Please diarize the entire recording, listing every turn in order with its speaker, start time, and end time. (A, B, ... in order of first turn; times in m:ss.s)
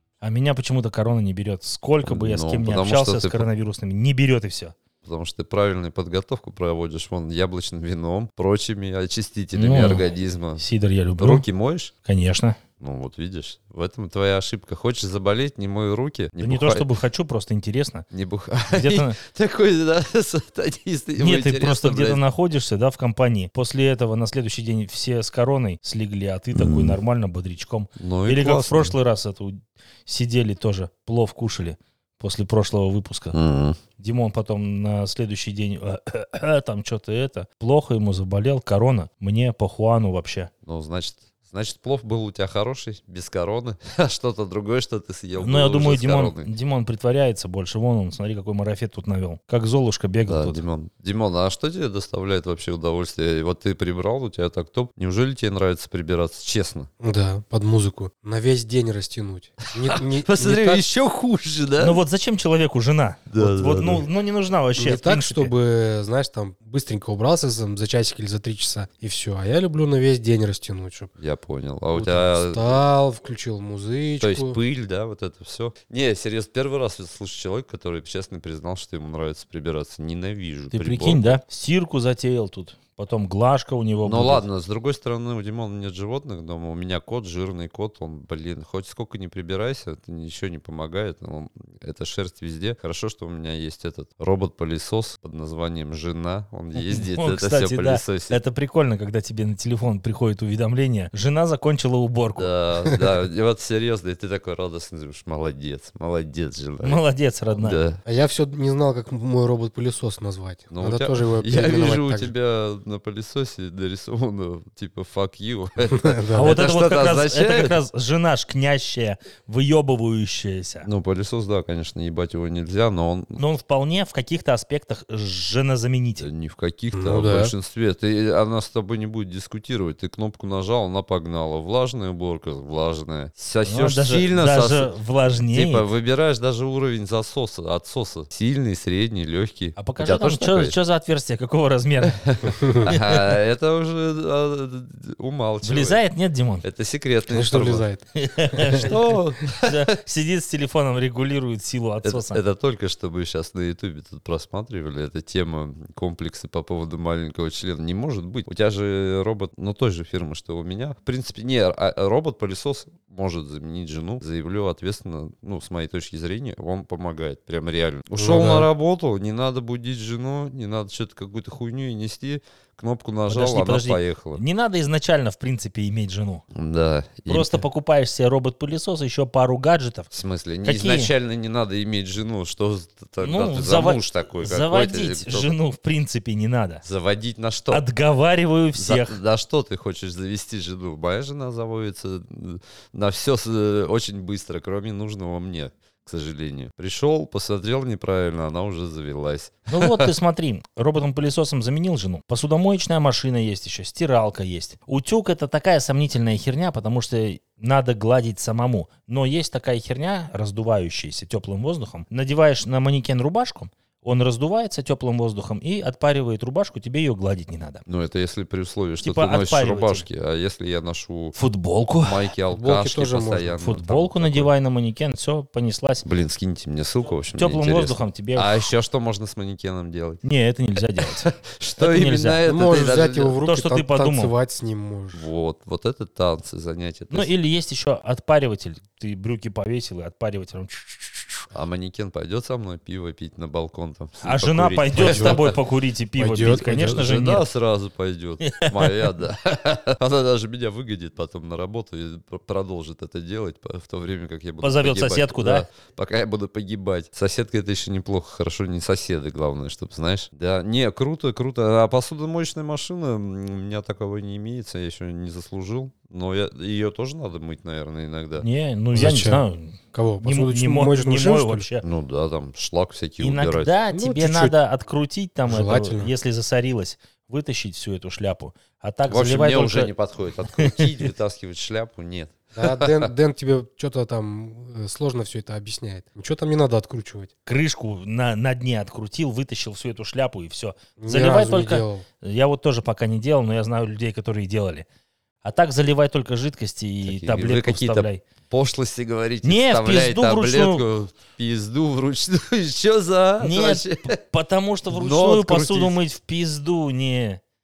0:00.2-0:04.8 A
0:02.0-0:03.4 B
0:05.0-0:10.6 B
0:09.5-0:10.1 A
0:10.6-0:11.4 A
0:11.2-0:11.9 B
0:12.0-0:12.6 A
0:12.8-0:16.9 B
0:16.4-0:18.0 A
0:18.1-0:22.2 B
0:18.7-0:19.2 A
0:21.2-0:33.4 A
0:26.5-0:27.0 B
0:28.0-0:29.0 B
0:33.3-0:33.8 B
0:34.0-0:40.5 A
0:40.7-0:46.5 B
0:45.4-0:50.6 A
0:50.3-0:56.9 B
0:57.0-1:00.8 C
0:59.6-1:02.0 B
1:01.8-1:05.5 A
1:03.3-1:04.0 B
1:04.8-1:11.1 C
1:11.2-1:12.8 B
1:11.9-1:14.6 C
1:14.2-1:21.4 B
1:20.7-1:24.4 A
1:24.0-1:38.4 B
1:36.8-1:42.5 A
1:42.4-1:47.0 B
1:46.8-1:47.8 A
1:47.6-1:48.0 B
1:48.0-1:52.3 C
1:50.7-1:57.8 B
1:55.9-1:56.6 C
1:56.3-2:00.9 A
2:00.8-2:03.4 B
2:03.4-2:06.3 A
2:06.2-2:14.9 B
2:06.9-2:07.5 C
2:13.6-2:15.8 A
2:15.5-2:20.8 B
2:19.8-2:23.3 A
2:22.1-2:26.0 B
2:22.5-2:22.8 C
2:25.6-2:26.7 A
2:26.6-2:27.8 B
2:27.3-2:28.8 C
2:28.1-2:32.4 A
2:28.8-2:29.9 B
2:32.0-2:54.4 B
2:48.2-2:48.7 C
2:53.3-2:56.4 A
2:56.5-2:57.6 B
2:57.3-3:00.1 A
3:00.1-3:05.5 B
3:00.6-3:01.1 A
3:03.2-3:06.8 A
3:06.8-3:07.8 B
3:07.7-3:09.2 A
3:08.8-3:20.1 B
3:19.7-3:37.8 A
3:37.9-3:41.4 B
3:39.0-3:40.0 A
3:41.4-3:42.3 A
3:42.0-3:44.5 B
3:42.5-3:43.6 C
3:43.6-3:46.0 A
3:46.0-3:50.2 B
3:47.3-3:48.6 A
3:50.2-3:52.4 A
3:51.1-3:53.4 B
3:52.4-3:55.2 C
3:53.4-3:54.3 A
3:55.1-3:57.3 B
3:57.1-4:01.4 A
4:01.5-4:05.6 B
4:04.2-4:07.4 A
4:05.0-4:05.5 C
4:06.2-4:07.0 C
4:06.7-4:28.4 B
4:08.4-4:09.1 A
4:14.6-4:15.6 A
4:28.4-4:31.8 A
4:28.9-4:31.7 C
4:31.8-4:33.7 B
4:33.2-4:39.9 A
4:33.9-4:34.6 C
4:35.5-4:36.1 C
4:39.1-4:43.1 B
4:40.5-4:41.1 A
4:42.6-4:47.3 C
4:47.5-4:54.8 A
4:51.0-4:52.0 C
4:55.4-4:58.2 A
4:57.0-5:04.2 B
4:59.4-5:00.8 A
5:03.4-5:07.4 A
5:04.9-5:06.0 B